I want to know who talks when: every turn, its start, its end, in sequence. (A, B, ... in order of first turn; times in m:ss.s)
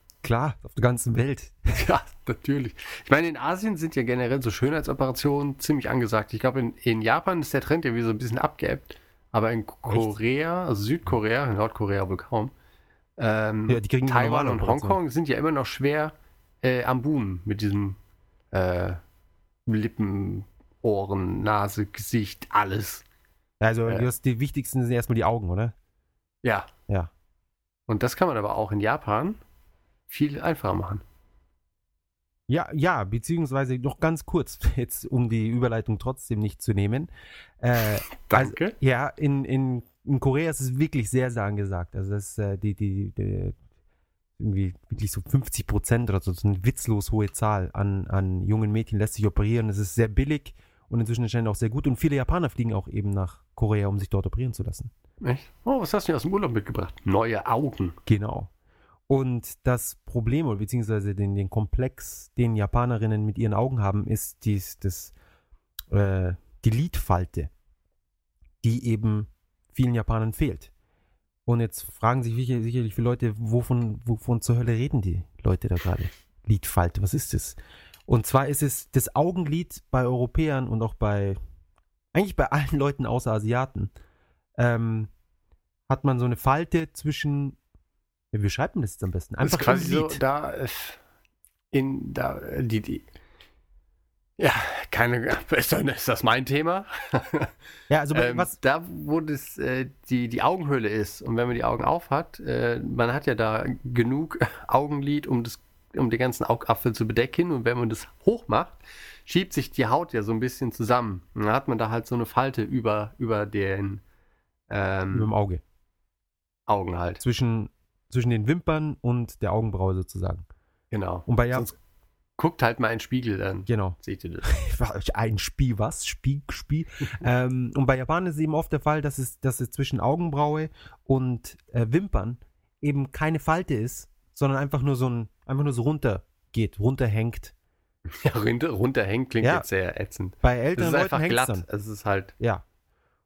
0:00.2-0:01.7 A
0:01.7-0:12.5 B
0:09.9-0:10.1 A
0:13.2-0:18.0 B
0:13.7-0:15.0 A
0:18.5-0:19.0 B
0:19.7-0:23.0 B
0:23.6-0:25.7 A
0:26.4-0:26.7 B
0:27.9-0:29.4 B
0:30.1-0:31.0 B
0:32.5-0:37.1 A
0:37.6-0:43.6 A
0:38.3-0:38.8 B
0:44.4-0:54.9 A
0:55.2-0:58.0 B
0:58.0-0:58.5 A
0:59.1-1:05.1 A
1:05.9-1:07.5 A
1:08.6-1:10.7 A
1:11.4-1:21.4 A
1:22.1-1:23.9 A
1:24.6-1:25.1 A
1:25.9-1:27.6 A
1:28.3-1:30.2 A
1:29.4-1:31.0 B
1:31.7-1:33.0 B
1:34.4-1:37.5 B
1:37.9-1:38.6 A
1:38.1-1:54.0 B
1:54.7-1:55.3 B
1:55.1-1:55.6 A
1:56.7-1:57.2 B
1:57.2-2:00.4 A
2:00.9-2:01.8 B
2:01.3-2:01.7 A
2:02.4-2:04.5 B
2:03.7-2:17.5 A
2:18.1-2:22.3 B
2:19.4-2:19.7 A
2:20.4-2:21.6 A
2:22.4-2:22.6 A